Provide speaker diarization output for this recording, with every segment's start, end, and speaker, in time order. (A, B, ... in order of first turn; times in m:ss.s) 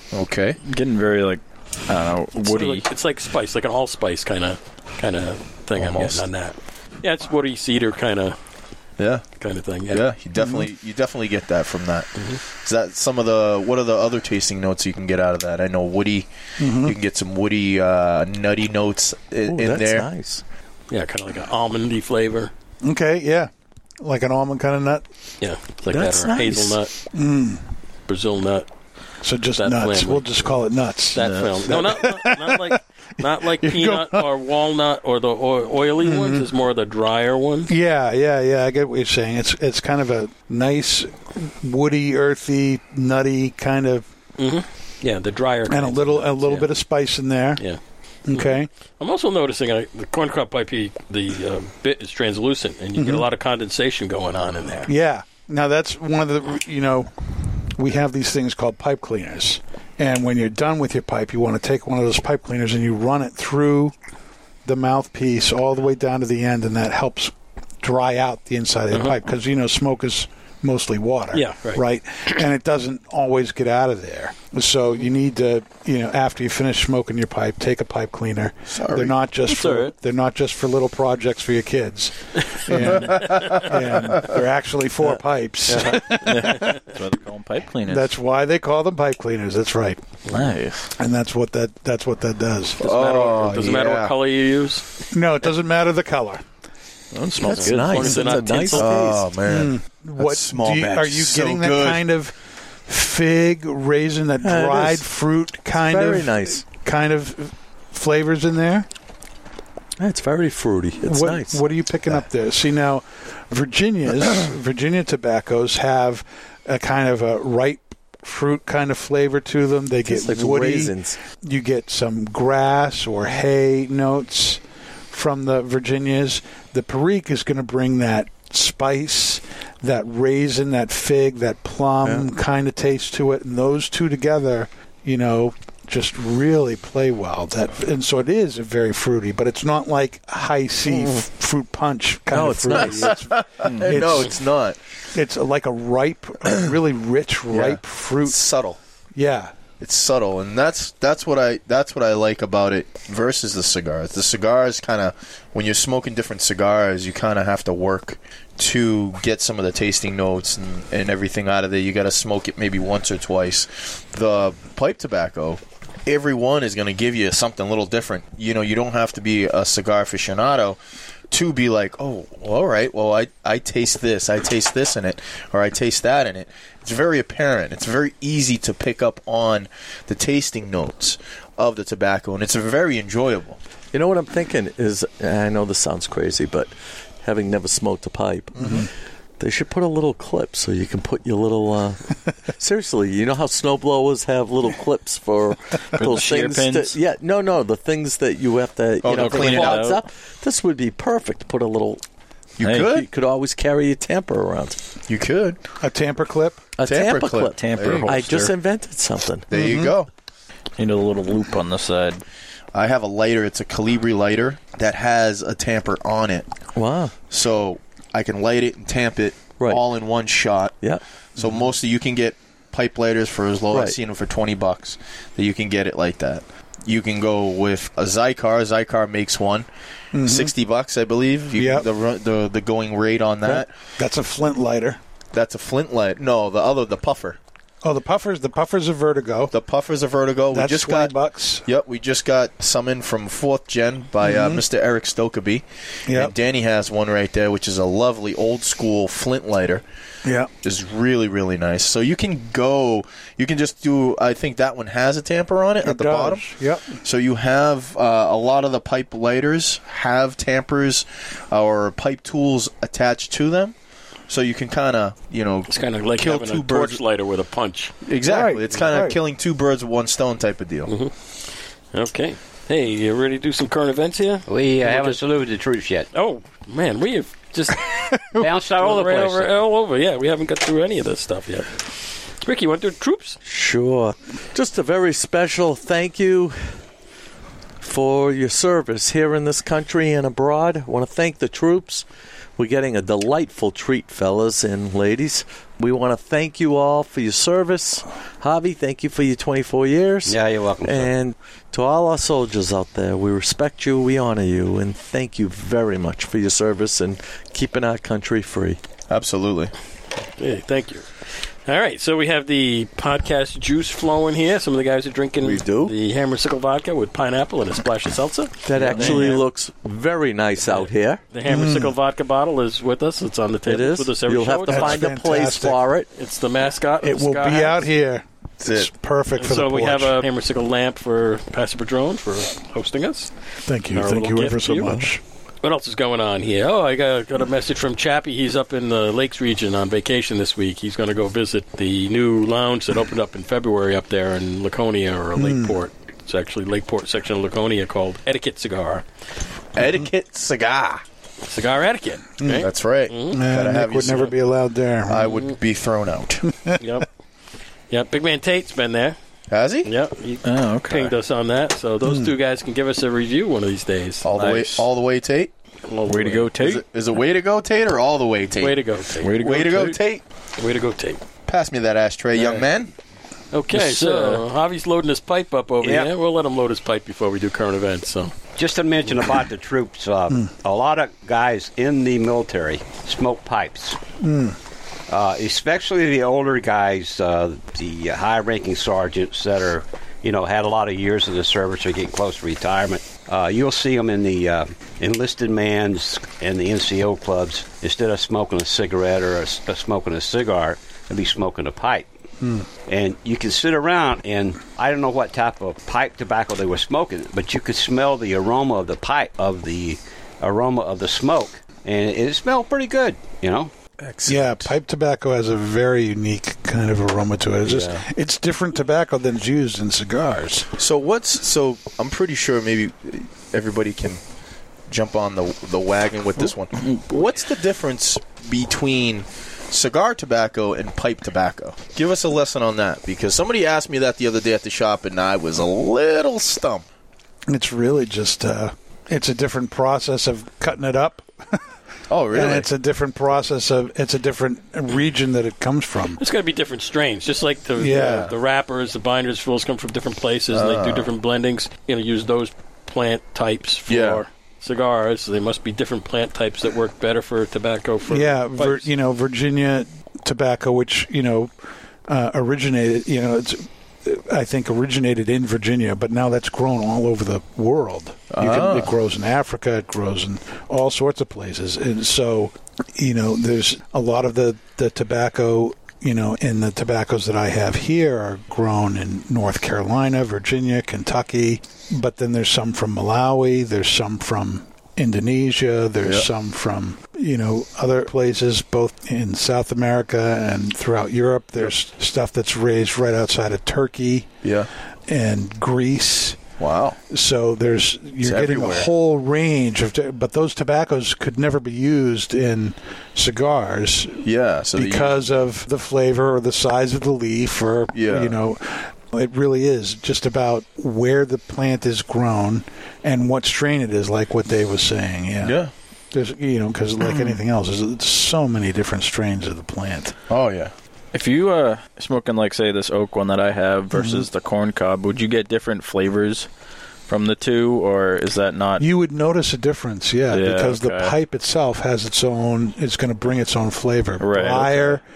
0:00.1-0:00.6 A
0:00.6-0:02.8 B
0:02.4-0:08.4 C
0:05.9-0:06.1 B
0:09.0-0:09.2 A
0:09.4-0:10.0 C
0:09.9-0:20.1 A
0:10.4-0:10.6 D
0:16.6-0:17.0 D
0:19.5-0:20.4 E
0:20.9-0:22.5 C
0:22.8-0:25.0 D
0:25.4-0:26.9 C
0:25.9-0:26.8 E
0:27.1-0:27.6 D
0:28.1-0:28.7 C
0:29.2-0:32.8 D
0:29.6-0:30.6 C
0:31.2-0:37.7 C
0:31.2-0:31.6 B
0:33.4-0:34.3 D
0:36.0-0:36.5 D
0:37.7-0:44.1 D
0:44.4-0:46.7 C
0:45.7-0:47.6 D
0:48.3-0:48.7 D
0:48.3-0:54.9 C
0:53.0-0:53.3 D
0:54.9-0:57.1 D
0:57.7-1:04.0 D
1:04.6-1:26.8 D
1:11.3-1:11.8 C
1:18.7-1:19.2 A
1:19.5-1:19.9 B
1:22.8-1:23.1 B
1:23.1-1:23.6 A
1:25.8-1:28.1 B
1:27.9-1:30.0 D
1:30.3-1:30.9 B
1:31.0-1:32.8 D
1:32.8-1:34.1 A
1:32.8-1:35.0 C
1:35.1-1:36.4 D
1:37.1-1:38.0 B
1:37.4-1:39.3 E
1:37.5-1:38.9 C
1:38.7-1:42.0 A
1:39.5-1:48.9 D
1:44.4-1:45.0 E
1:45.7-1:46.6 E
1:50.0-1:51.6 E
1:51.0-2:24.3 D
2:00.0-2:01.2 E
2:20.9-2:21.2 E
2:22.3-2:23.2 E
2:22.8-2:24.8 A
2:23.6-2:24.2 B
2:25.1-2:28.4 D
2:27.5-2:28.8 A
2:29.2-2:29.5 D
2:29.8-2:50.8 A
2:51.3-3:03.6 A
3:03.9-3:06.7 E
3:07.2-3:22.0 E
3:08.6-3:08.9 D
3:16.0-3:17.0 B
3:19.0-3:20.0 A
3:19.1-3:20.0 B
3:22.6-3:23.1 A
3:22.6-3:22.9 B
3:22.8-3:24.8 E
3:25.1-3:25.6 A
3:25.8-3:26.7 D
3:26.8-3:29.5 E
3:26.8-3:28.3 A
3:27.5-3:28.5 B
3:29.5-3:30.1 A
3:29.5-3:29.9 D
3:30.8-3:32.2 B
3:32.7-3:36.5 A
3:36.8-3:37.2 E
3:37.3-3:40.8 A
3:41.4-3:49.7 A
3:43.7-3:44.0 E
3:50.1-3:50.5 D
3:50.2-3:53.7 A
3:51.6-3:51.9 D
3:54.0-3:55.0 D
3:55.3-3:57.4 A
3:57.8-3:59.5 D
3:59.5-4:09.8 A
4:00.5-4:01.7 D
4:04.2-4:04.6 D
4:06.1-4:06.3 D
4:10.2-4:10.5 D
4:10.6-4:23.8 A
4:15.8-4:17.0 D
4:24.3-4:27.0 A
4:25.7-4:27.9 C
4:28.0-4:30.9 A
4:28.2-4:29.2 D
4:30.9-4:31.1 C
4:31.9-4:35.2 C
4:34.5-4:36.1 F
4:36.1-4:41.8 C
4:38.4-4:39.5 F
4:42.4-4:43.4 C
4:43.4-4:46.7 E
4:47.8-4:52.1 E
4:52.6-5:08.8 E
5:00.3-5:01.1 F
5:09.1-5:09.7 A
5:10.4-5:11.1 C
5:11.7-5:19.4 C
5:15.4-5:15.9 E
5:18.6-5:21.2 E
5:18.8-5:19.4 B
5:20.6-5:25.0 C
5:21.5-5:21.9 D
5:23.7-5:26.1 E
5:24.7-5:25.8 D
5:26.2-5:27.9 C
5:27.0-5:30.2 D
5:28.6-5:28.9 A
5:29.4-5:33.3 C
5:33.7-5:35.2 D
5:33.9-5:35.0 C
5:35.6-5:49.0 C
5:45.4-5:45.8 D
5:49.8-5:51.0 A
5:51.5-5:53.4 C
5:52.5-5:54.4 A
5:53.3-5:55.3 D
5:55.1-5:56.5 A
5:56.8-5:57.1 C
5:57.9-5:59.2 C
5:59.5-5:59.9 A
5:59.8-6:04.3 C
6:00.4-6:01.1 B
6:02.0-6:02.3 D
6:04.2-6:05.5 A
6:04.3-6:04.8 B
6:05.9-6:06.5 C
6:06.1-6:06.8 B
6:06.6-6:08.8 A
6:08.6-6:09.3 C
6:09.2-6:10.0 B
6:09.4-6:10.2 A
6:10.6-6:11.2 C
6:11.5-6:12.9 A
6:12.4-6:12.6 C
6:13.5-6:18.3 C
6:13.7-6:14.4 B
6:15.8-6:16.1 F
6:18.6-6:24.0 F
6:24.2-6:24.6 D
6:25.1-6:42.1 F
6:42.8-6:53.7 F
6:54.0-6:54.8 A
6:54.3-7:00.7 D
6:57.7-6:58.0 A
7:00.8-7:04.2 A
7:04.9-7:16.9 A
7:17.5-7:21.6 D
7:22.1-7:22.7 A
7:22.3-7:26.2 D
7:26.2-7:38.9 C
7:27.8-7:28.3 D
7:28.0-7:28.2 A
7:30.5-7:31.1 A
7:33.9-7:34.2 A
7:38.1-7:41.5 D
7:42.1-8:14.3 D
7:48.3-7:48.9 A
8:14.4-8:14.7 A
8:15.1-8:16.4 D
8:16.6-8:17.0 A
8:17.1-8:35.6 D
8:18.2-8:18.9 A
8:24.2-8:25.2 A
8:27.9-8:28.4 A
8:35.4-8:35.7 A
8:36.1-8:40.2 D
8:40.3-8:40.7 A
8:41.1-8:46.5 B
8:43.9-8:44.2 D
8:47.1-8:48.9 B
8:48.8-8:55.0 D
8:50.3-8:51.2 B
8:54.2-8:55.0 B